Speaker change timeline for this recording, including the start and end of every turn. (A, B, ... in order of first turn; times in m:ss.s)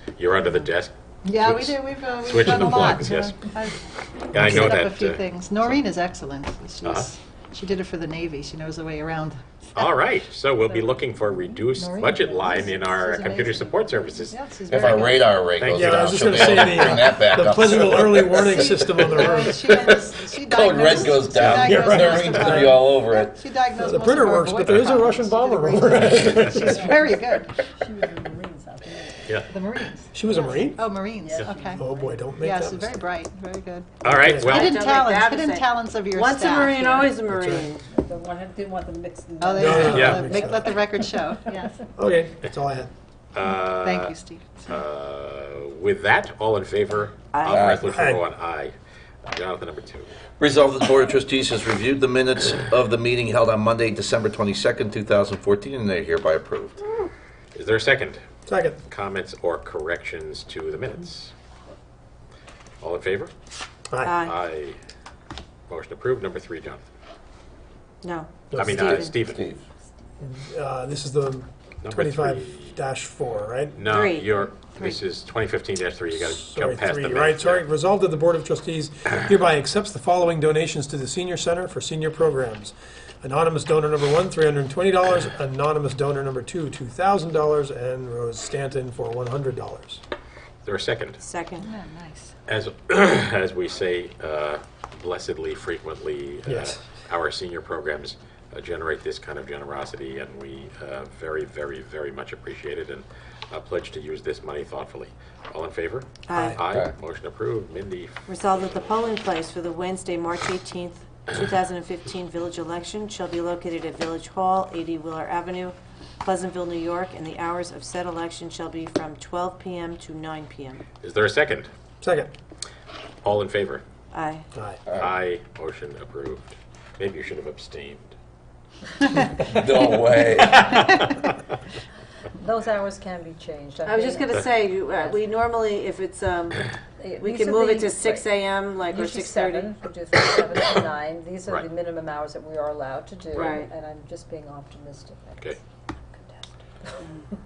0:00.2-0:03.4 A
0:00.4-0:00.7 B
0:01.2-0:09.8 B
0:04.3-0:05.2 A
0:04.3-0:04.6 C
0:09.8-0:16.6 A
0:11.7-0:15.5 B
0:14.7-0:23.4 D
0:15.7-0:19.8 C
0:16.6-0:17.0 B
0:18.2-0:27.6 B
0:21.5-0:22.9 C
0:23.8-0:26.9 C
0:26.7-0:29.4 E
0:29.5-0:37.1 B
0:30.1-0:30.9 C
0:30.3-0:30.7 E
0:31.2-0:32.2 E
0:31.8-0:33.0 C
0:34.0-0:34.8 A
0:34.0-0:34.6 C
0:34.5-0:37.8 F
0:36.8-0:37.1 E
0:37.3-0:37.7 C
0:37.8-0:40.7 E
0:39.4-0:41.8 B
0:39.6-0:40.8 C
0:39.9-0:40.3 A
0:42.0-0:42.9 C
0:43.3-0:44.1 A
0:43.6-0:44.8 B
0:44.7-0:50.1 A
0:47.3-0:47.6 F
0:47.5-0:47.9 D
0:47.9-0:48.2 C
0:50.4-0:56.8 D
0:57.5-0:58.2 A
0:58.5-0:58.8 C
0:58.9-1:01.3 A
1:02.8-1:03.3 A
1:04.0-1:04.3 F
1:04.2-1:04.8 A
1:05.7-1:06.8 A
1:08.0-1:09.1 F
1:08.5-1:08.8 C
1:08.5-1:09.4 A
1:08.7-1:09.6 D
1:10.2-1:13.8 C
1:11.8-1:12.8 A
1:13.7-1:17.6 A
1:13.9-1:14.4 F
1:16.2-1:30.0 C
1:30.6-1:31.2 A
1:31.2-1:31.7 F
1:31.6-1:32.4 B
1:32.5-1:48.3 A
1:36.4-1:36.8 C
1:46.3-1:46.6 F
1:48.3-2:00.8 F
2:01.0-2:01.7 A
2:02.0-2:02.3 C
2:03.2-2:03.8 A
2:04.1-2:04.4 F
2:04.5-2:04.8 C
2:04.8-2:05.2 D
2:05.0-2:08.1 A
2:09.4-2:10.8 D
2:10.4-2:11.0 A
2:12.4-2:14.3 E
2:13.8-2:19.7 F
2:17.0-2:18.3 E
2:18.8-2:25.5 E
2:23.3-2:23.7 F